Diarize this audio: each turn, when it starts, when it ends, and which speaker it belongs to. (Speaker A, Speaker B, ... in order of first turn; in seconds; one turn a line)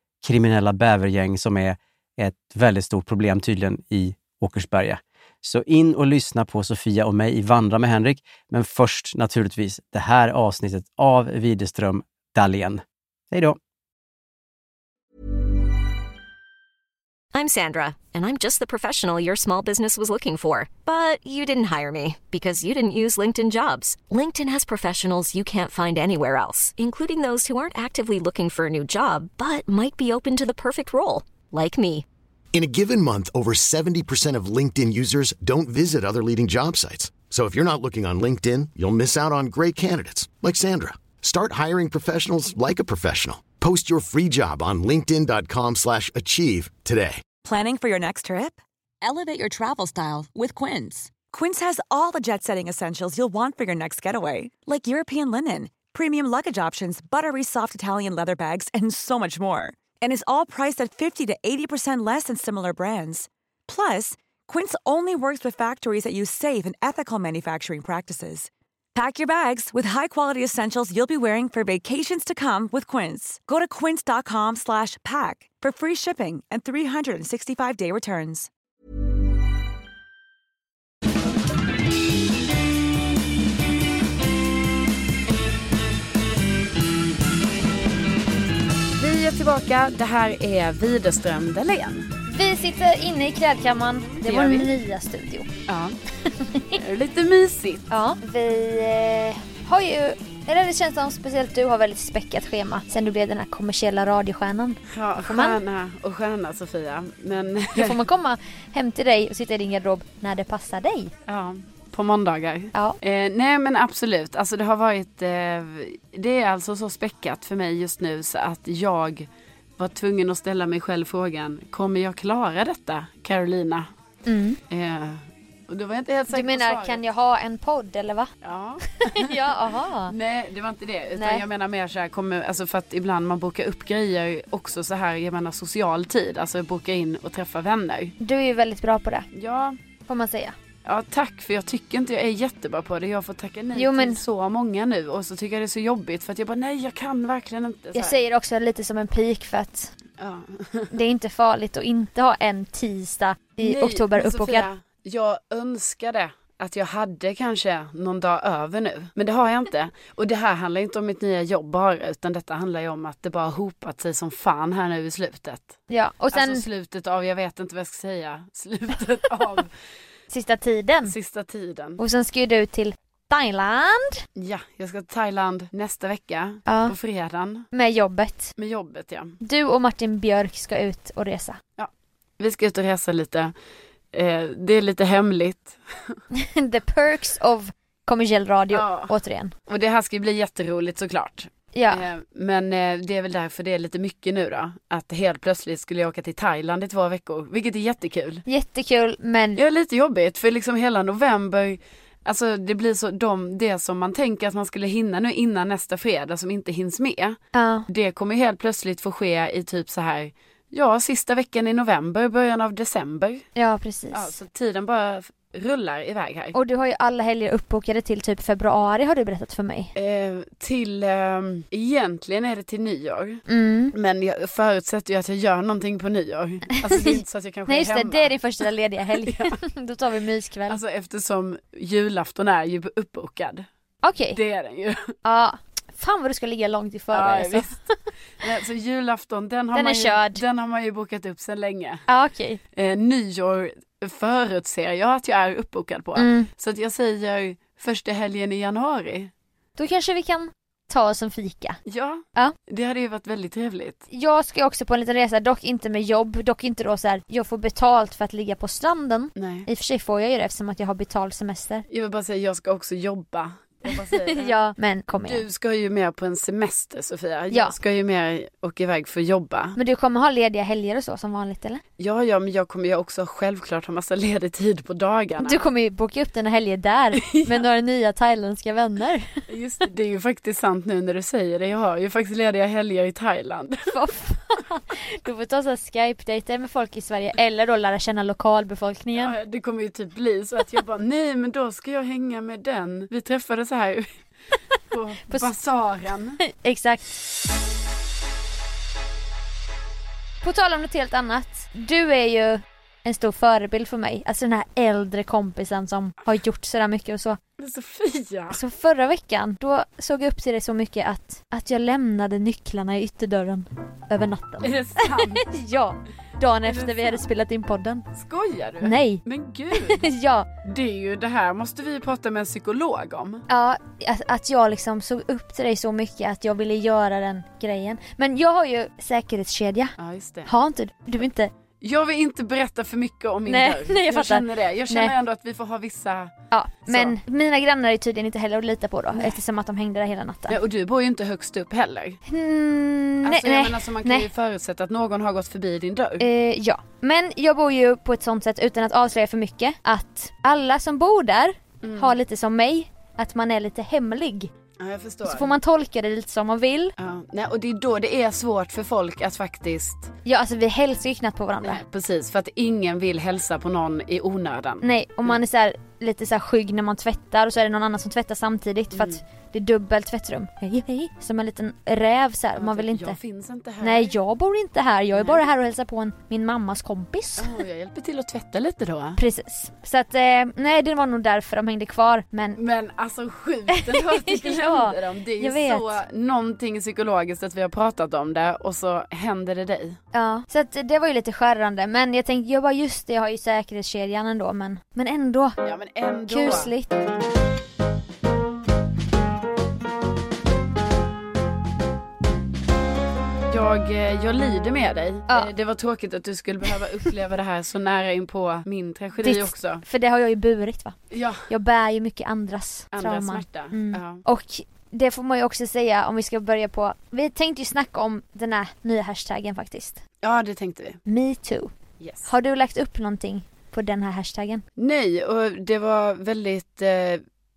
Speaker A: 0.2-13.6
Speaker B: 17.3-32.0
Speaker C: 32.5-47.2
Speaker D: 47.4-78.5
Speaker E: 89.0-92.1
Speaker F: 92.3-95.5
Speaker E: 94.2-94.7
Speaker E: 95.7-95.9
Speaker F: 96.2-96.8
Speaker E: 96.7-97.9
Speaker F: 97.9-105.6
Speaker E: 104.9-108.0
Speaker F: 107.7-111.1
Speaker E: 111.3-123.9
Speaker F: 124.2-124.6
Speaker E: 124.7-127.0
Speaker F: 126.3-128.3
Speaker E: 128.4-138.1
Speaker F: 129.0-130.1
Speaker F: 131.1-131.4
Speaker F: 138.2-139.3
Speaker E: 139.3-139.8
Speaker F: 140.1-140.5
Speaker E: 140.8-148.2
Speaker F: 143.7-144.2
Speaker F: 147.9-149.9
Speaker E: 150.2-150.9
Speaker F: 150.9-154.7
Speaker E: 153.6-165.8
Speaker F: 165.9-166.6
Speaker E: 166.3-169.7
Speaker F: 170.3-171.1
Speaker E: 171.1-172.0
Speaker F: 172.0-174.2
Speaker E: 174.3-177.7
Speaker F: 176.7-176.9
Speaker F: 177.7-178.5
Speaker E: 178.6-179.4
Speaker F: 179.4-181.6
Speaker E: 181.8-183.5
Speaker E: 184.1-186.2
Speaker F: 186.3-189.5
Speaker E: 188.7-189.1
Speaker E: 189.7-198.4
Speaker F: 191.7-192.1
Speaker F: 198.5-199.6
Speaker E: 199.5-213.4
Speaker F: 207.5-207.8
Speaker F: 213.6-214.3
Speaker E: 214.1-216.6
Speaker F: 216.5-219.9
Speaker E: 219.9-228.3
Speaker F: 223.5-223.9
Speaker F: 226.8-230.8
Speaker E: 229.2-229.6
Speaker E: 230.7-233.7
Speaker F: 234.0-234.4
Speaker E: 234.3-235.1
Speaker F: 235.2-237.8
Speaker E: 237.1-237.8
Speaker E: 238.4-242.0
Speaker F: 239.7-240.4
Speaker F: 242.1-242.6
Speaker E: 242.7-249.3
Speaker F: 246.2-246.5
Speaker F: 249.8-251.8
Speaker E: 251.8-254.0
Speaker F: 254.1-261.8
Speaker E: 259.4-259.7
Speaker E: 261.9-264.5
Speaker F: 263.9-265.4
Speaker E: 265.2-269.8
Speaker F: 267.5-267.8
Speaker F: 269.7-271.8
Speaker E: 272.0-275.6
Speaker F: 275.4-279.3
Speaker E: 277.1-277.6
Speaker E: 279.5-284.0
Speaker F: 283.9-289.3
Speaker E: 289.1-294.1
Speaker E: 294.9-296.4
Speaker F: 296.4-297.1
Speaker F: 300.4-307.4
Speaker E: 307.6-308.6
Speaker F: 308.5-318.1
Speaker E: 314.6-315.5
Speaker E: 316.6-317.2
Speaker E: 318.1-320.1
Speaker F: 318.8-320.5
Speaker E: 320.6-323.4
Speaker F: 323.5-329.9
Speaker E: 330.0-330.5
Speaker F: 330.4-331.5
Speaker E: 331.8-336.4
Speaker F: 333.5-335.1
Speaker F: 336.5-340.6
Speaker E: 336.9-337.2
Speaker E: 339.1-339.4
Speaker E: 340.5-342.2
Speaker F: 342.3-344.3
Speaker E: 343.2-346.3
Speaker F: 346.2-354.5
Speaker E: 351.8-352.2
Speaker E: 354.8-355.5
Speaker F: 355.2-356.9
Speaker E: 357.0-360.1
Speaker F: 360.2-361.8
Speaker E: 361.6-365.4
Speaker F: 364.8-373.2
Speaker E: 368.9-369.2
Speaker E: 372.6-374.1
Speaker F: 373.8-377.5
Speaker E: 375.1-375.4
Speaker E: 377.4-379.2
Speaker F: 379.2-382.6
Speaker E: 382.6-390.0
Speaker F: 383.7-386.0
Speaker F: 390.1-395.6
Speaker E: 395.6-396.7
Speaker F: 396.3-396.9
Speaker E: 403.5-409.8
Speaker F: 409.2-420.0
Speaker E: 411.1-411.5
Speaker E: 412.9-414.2
Speaker E: 420.2-421.0
Speaker F: 421.0-421.7
Speaker E: 422.0-422.3
Speaker F: 422.2-424.6
Speaker E: 424.8-427.2